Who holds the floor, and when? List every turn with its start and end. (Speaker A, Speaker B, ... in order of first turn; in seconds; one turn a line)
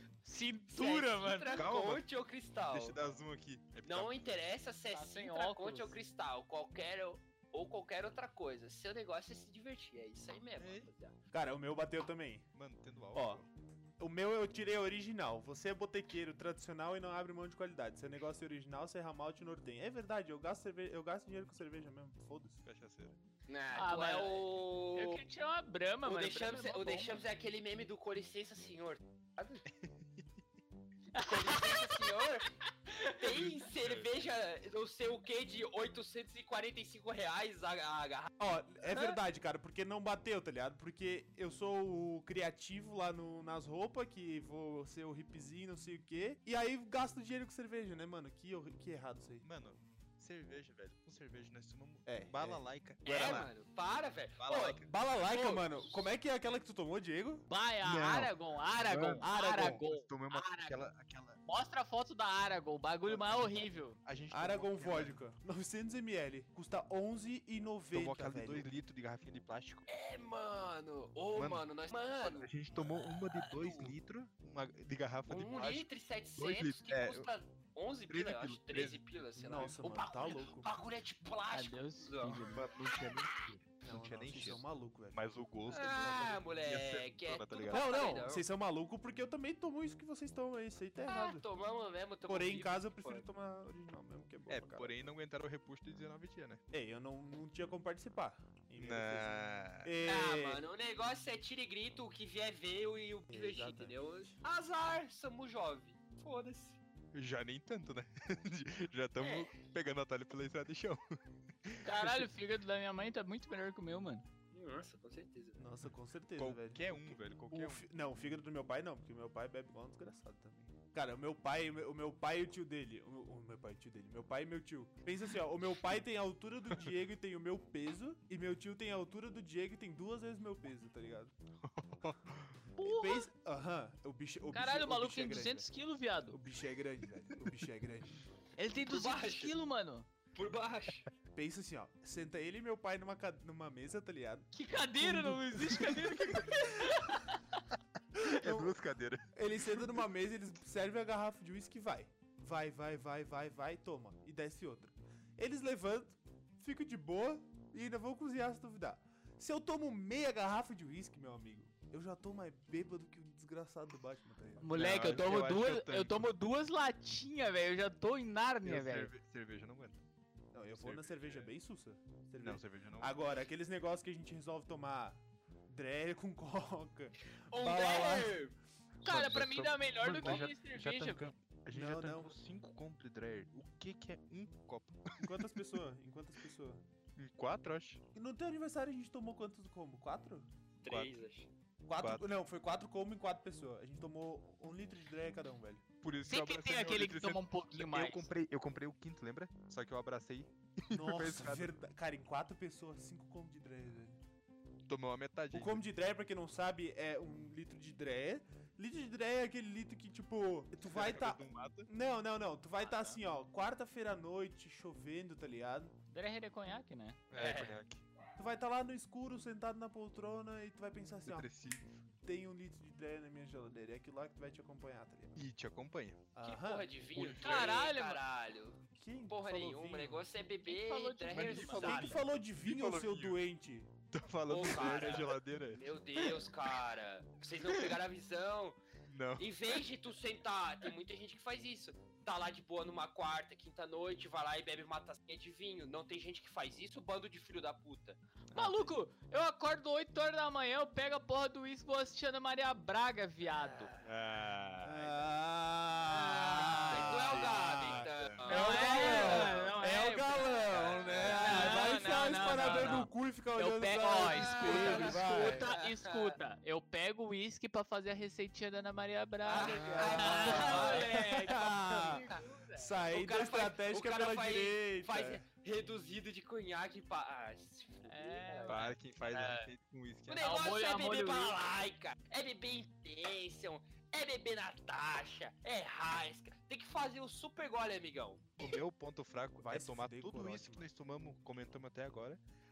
Speaker A: 0.2-1.7
Speaker B: 0.7-3.0
Speaker C: 1.5-2.0
Speaker C: 2.7-4.3
Speaker B: 3.8-11.2
Speaker A: 4.9-6.0
Speaker C: 10.6-10.9
Speaker D: 11.3-12.5
Speaker C: 12.6-13.5
Speaker D: 13.1-13.4
Speaker D: 14.0-22.6
Speaker C: 22.6-23.2
Speaker B: 23.5-25.2
Speaker A: 23.7-27.3
Speaker B: 26.1-29.6
Speaker C: 29.7-30.3
Speaker A: 31.1-32.1
Speaker B: 31.2-32.5
Speaker A: 32.9-33.5
Speaker B: 33.2-39.2
Speaker C: 33.3-34.1
Speaker D: 38.4-49.5
Speaker C: 49.4-53.5
Speaker D: 52.1-52.6
Speaker B: 53.0-55.8
Speaker C: 54.4-54.9
Speaker D: 54.8-57.5
Speaker A: 57.5-60.8
Speaker C: 57.8-58.3
Speaker C: 58.9-61.4
Speaker D: 59.2-59.8
Speaker A: 61.5-64.0
Speaker C: 63.1-65.2
Speaker D: 64.3-68.7
Speaker C: 67.9-69.9
Speaker B: 69.9-74.0
Speaker C: 71.3-75.9
Speaker B: 75.3-82.4
Speaker C: 76.4-77.3
Speaker C: 78.1-79.0
Speaker D: 79.4-80.7
Speaker A: 81.5-82.7
Speaker C: 82.5-87.9
Speaker D: 83.8-85.2
Speaker B: 85.7-88.4
Speaker D: 87.7-91.5
Speaker B: 91.0-93.2
Speaker D: 92.3-94.9
Speaker C: 94.5-96.6
Speaker D: 96.7-99.3
Speaker C: 98.8-99.9
Speaker D: 99.8-100.6
Speaker B: 100.0-106.8
Speaker D: 103.3-104.3
Speaker C: 107.1-112.3
Speaker B: 109.2-109.5
Speaker A: 111.8-114.2
Speaker B: 114.5-115.7
Speaker D: 115.6-131.3
Speaker C: 116.4-117.8
Speaker C: 131.6-132.7
Speaker A: 132.8-133.3
Speaker D: 132.8-135.7
Speaker A: 134.5-136.4
Speaker D: 136.3-138.2
Speaker A: 138.6-140.1
Speaker B: 138.9-139.5
Speaker B: 140.3-141.1
Speaker D: 141.3-147.0
Speaker A: 144.5-147.6
Speaker C: 148.2-150.0
Speaker D: 148.2-148.8
Speaker D: 149.3-165.2
Speaker A: 164.6-169.1
Speaker C: 164.7-166.3
Speaker C: 168.6-170.0
Speaker D: 170.5-178.4
Speaker C: 170.8-171.5
Speaker C: 172.4-173.2
Speaker B: 177.5-178.6
Speaker A: 179.0-181.3
Speaker C: 179.1-185.6
Speaker B: 180.1-180.5
Speaker D: 181.7-182.3
Speaker D: 185.2-186.8
Speaker C: 187.2-188.0
Speaker D: 188.2-190.5
Speaker B: 190.8-191.5
Speaker C: 190.9-191.1
Speaker D: 191.9-195.8
Speaker C: 192.0-192.2
Speaker C: 196.0-201.7
Speaker A: 196.3-198.3
Speaker D: 200.9-204.2
Speaker C: 204.9-205.8
Speaker D: 205.5-215.9
Speaker C: 210.8-211.9
Speaker A: 212.8-213.2
Speaker A: 216.1-217.2
Speaker C: 217.3-218.0
Speaker B: 217.3-217.8
Speaker D: 218.4-221.5
Speaker C: 221.3-221.9
Speaker D: 222.2-225.4
Speaker C: 225.4-226.3
Speaker D: 226.3-226.9
Speaker B: 226.4-232.2
Speaker C: 227.1-227.8
Speaker A: 227.4-228.2
Speaker D: 229.0-230.3
Speaker A: 230.7-232.1
Speaker C: 231.3-233.4
Speaker D: 231.6-233.9
Speaker C: 234.1-236.8
Speaker B: 234.5-238.8
Speaker C: 239.1-239.5
Speaker B: 239.4-248.2
Speaker A: 248.5-253.9
Speaker C: 248.5-248.9
Speaker B: 253.5-254.1
Speaker C: 254.0-255.2
Speaker D: 254.8-265.7
Speaker B: 256.1-259.7
Speaker C: 256.8-258.5
Speaker A: 258.5-260.6
Speaker B: 260.7-261.9
Speaker C: 260.8-261.4
Speaker A: 261.3-273.0
Speaker B: 264.3-266.4
Speaker B: 269.4-271.2
Speaker D: 269.6-275.4
Speaker B: 273.1-278.8
Speaker A: 278.1-279.7
Speaker C: 278.7-280.5
Speaker B: 280.3-288.7
Speaker A: 280.4-281.6
Speaker C: 288.6-292.4
Speaker D: 289.6-290.9